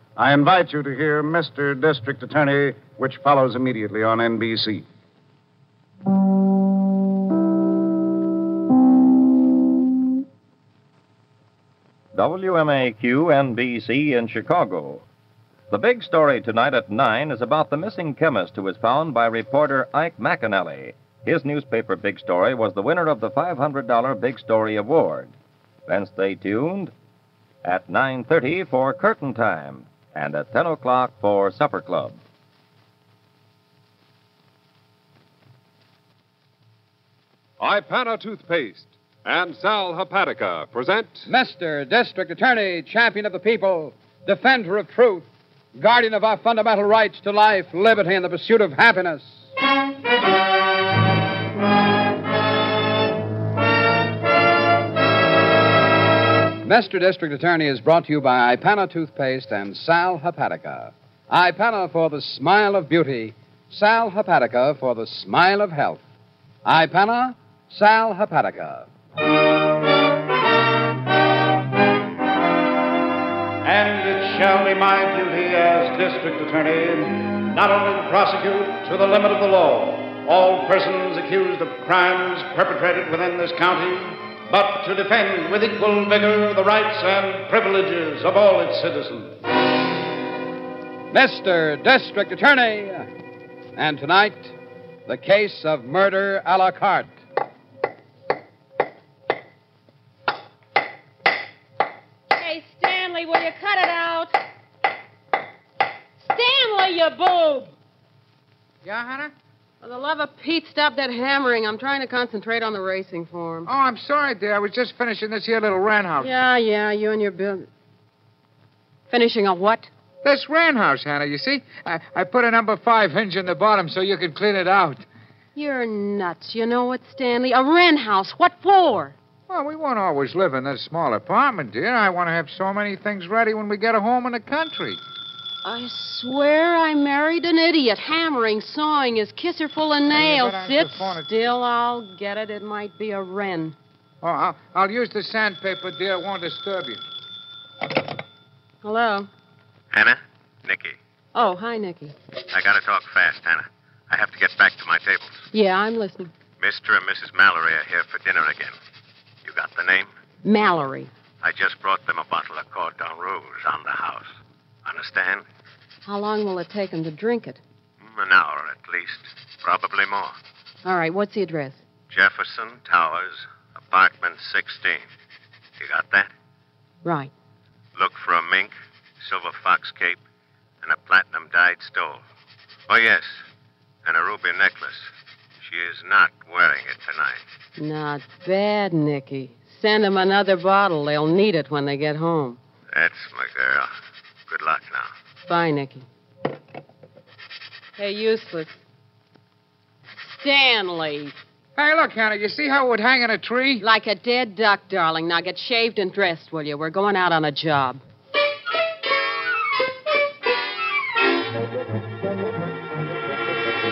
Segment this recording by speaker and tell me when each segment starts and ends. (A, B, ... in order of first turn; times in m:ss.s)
0:00.2-0:04.8 A
0:12.1-0:15.0 B
0:15.7-0:25.3 B
0:25.9-0:26.9 B
0:27.6-0:32.2 B
0:37.6-0:41.3 C
0:41.3-0:49.4 D
0:56.6-1:06.0 D
1:06.6-1:08.9 D
1:13.6-1:29.4 A
1:31.1-1:33.1 D
1:33.8-1:34.5 D
1:35.1-1:37.1 D
1:42.3-1:44.3 E
1:46.2-1:47.7 E
1:48.8-1:49.3 F
1:49.8-1:53.7 E
1:53.7-1:56.3 F
1:56.2-1:57.7 E
1:59.1-1:59.9 E
2:00.2-2:05.0 F
2:05.5-2:09.2 E
2:09.5-2:15.0 F
2:15.6-2:23.8 E
2:20.1-2:21.3 F
2:24.2-2:27.0 F
2:28.8-2:29.3 E
2:29.9-2:31.0 G
2:31.3-2:32.2 E
2:32.5-2:35.4 G
2:35.5-2:36.3 E
2:36.6-2:38.8 G
2:39.4-2:40.1 G
2:40.4-2:41.1 E
2:41.4-2:45.4 G
2:46.0-2:47.6 E
2:48.0-2:50.4 G
2:50.8-2:51.8 E
2:52.1-2:55.1 G
2:55.8-2:56.3 G
2:57.0-2:57.3 E
2:58.0-3:00.2 G
3:00.8-3:02.2 G
3:02.9-3:03.4 G
3:04.0-3:07.4 G
3:07.8-3:12.6 E
3:12.9-3:13.9 G
3:14.5-3:15.1 G
3:15.5-3:16.1 E
3:18.0-3:18.8 E
3:20.2-3:21.3 E
3:21.8-3:23.8 F
3:23.8-3:28.0 E